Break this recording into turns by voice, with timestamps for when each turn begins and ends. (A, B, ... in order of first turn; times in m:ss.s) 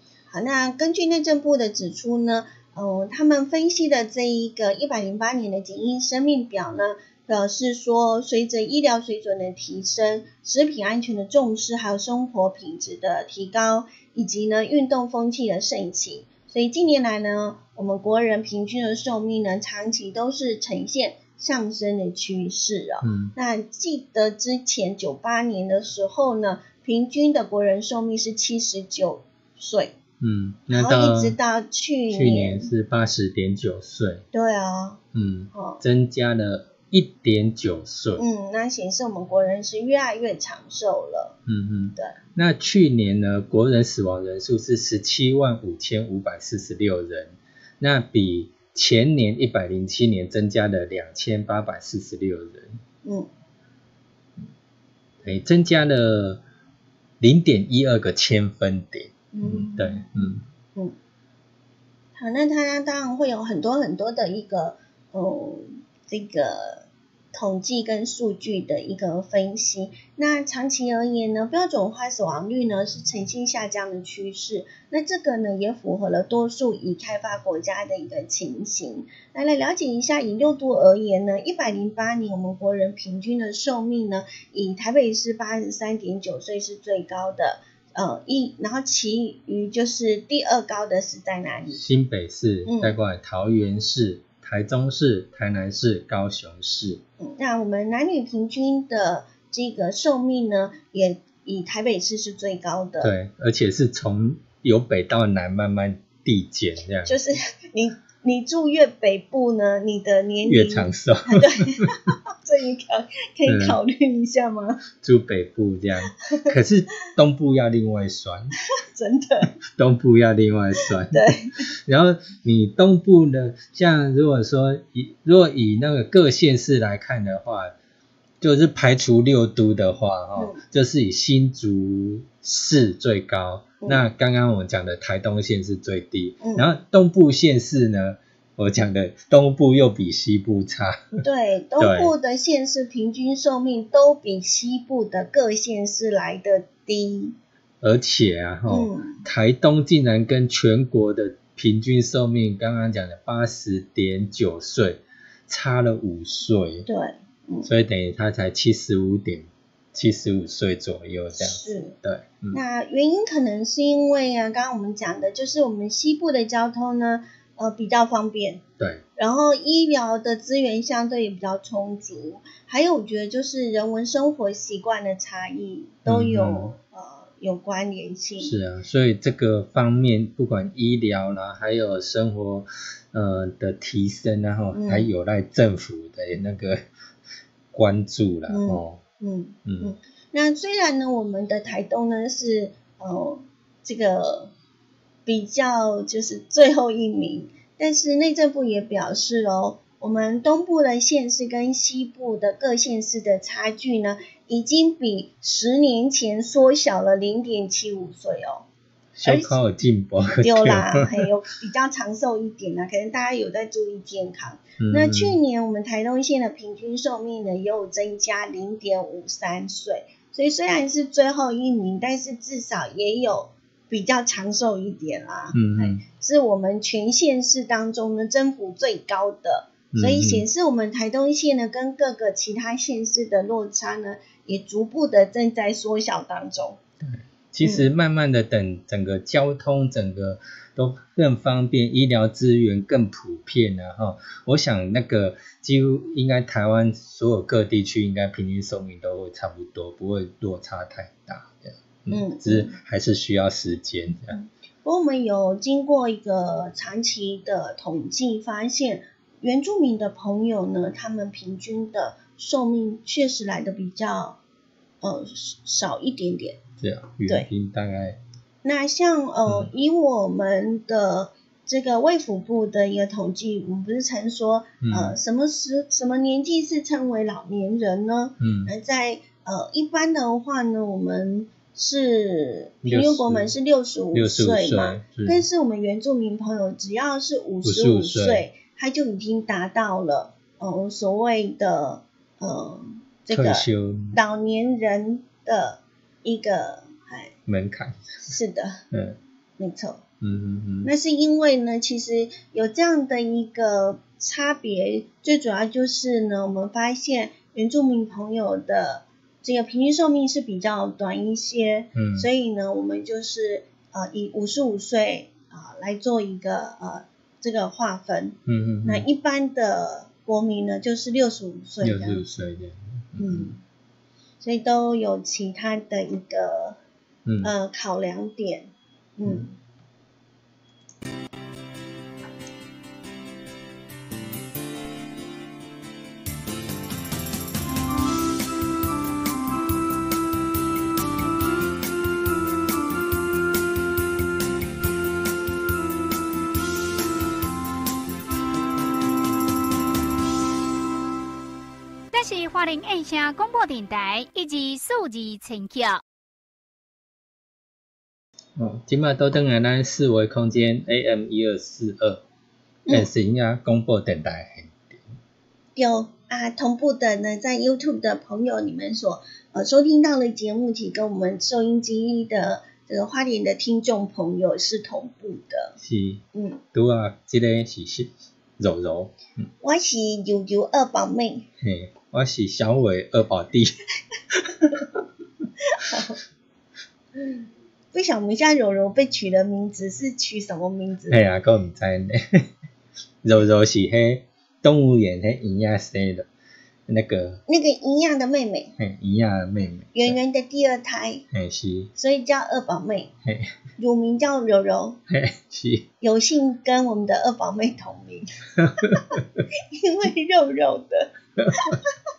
0:00.3-0:29.9 A
0:23.0-0:23.3 B
0:30.2-0:31.4 B
0:30.7-0:32.7 A
0:32.1-0:34.2 B
0:34.3-0:35.0 A
0:35.1-0:38.2 B
0:35.5-0:35.8 A
0:38.2-0:41.4 A
0:41.5-0:52.8 B
0:53.0-0:53.3 A
0:55.2-0:56.4 B
0:57.2-1:00.4 B
0:59.3-1:01.0 A
1:02.1-1:31.8 A
1:31.7-1:37.0 B
1:32.6-1:33.0 A
1:37.2-1:43.1 A
1:43.0-1:47.2 B
1:47.0-1:54.8 A
1:50.4-1:51.9 B
1:53.4-1:53.8 B
1:55.0-1:58.5 B
1:56.3-1:56.5 A
1:58.9-1:59.5 A
1:59.6-2:07.7 B
2:01.1-2:01.6 A
2:08.4-2:21.2 B
2:10.4-2:10.6 A
2:16.4-2:16.7 A
2:21.2-2:27.3 A
2:21.8-2:22.1 B
2:27.8-2:36.9 B
2:28.7-2:29.2 A
2:36.9-2:37.7 A
2:37.6-2:42.6 B
2:41.4-2:42.0 A
2:42.5-2:48.6 A
2:49.2-2:58.5 A
2:56.0-2:56.7 B
2:58.4-3:06.8 B
3:04.7-3:05.1 A
3:07.7-3:09.0 B
3:08.5-3:14.5 A
3:09.6-3:09.9 B
3:15.2-3:28.6 A
3:29.1-3:31.2 B
3:29.2-3:29.6 A
3:30.4-3:56.8 A
3:34.8-3:35.4 B
3:45.5-3:46.0 B
3:49.9-3:50.4 B
3:57.0-4:14.4 B
4:12.1-4:12.8 A
4:14.3-4:24.4 A
4:25.0-4:26.6 A
4:26.8-4:28.2 B
4:28.6-4:57.3 A
4:34.8-4:35.2 B
4:38.4-4:38.7 B
4:42.8-4:43.5 B
4:44.1-4:45.4 B
4:47.6-4:48.4 B
4:53.3-4:54.2 B
4:57.5-4:58.3 B
4:58.2-4:58.8 A
4:58.9-4:59.2 B
4:59.6-5:00.0 A
5:00.2-5:00.9 B
5:00.8-5:22.2 A
5:11.9-5:12.3 B
5:18.4-5:19.0 B
5:21.8-5:23.5 B
5:23.2-5:23.6 A
5:24.4-5:26.8 A
5:27.2-5:27.5 B
5:27.4-5:29.6 A
5:52.1-5:56.0 C
5:58.6-6:02.2 B
6:02.9-6:05.0 B
6:05.8-6:15.7 A
6:15.8-6:19.4 B
6:16.3-6:16.6 A
6:19.6-6:21.4 A
6:21.6-6:23.8 B
6:25.7-6:26.2 A
6:27.9-6:31.2 A
6:31.1-6:32.5 B
6:33.2-6:36.3 B
6:36.9-6:37.4 B
6:37.5-6:38.7 A
6:38.8-6:40.2 B
6:39.9-6:41.2 A
6:41.3-6:41.9 B
6:41.9-6:43.1 A
6:43.2-6:43.5 B
6:43.8-6:45.0 A
6:45.1-6:45.8 B
6:46.0-6:48.3 A
6:48.6-6:49.4 B
6:48.8-6:49.2 A
6:49.7-6:51.9 A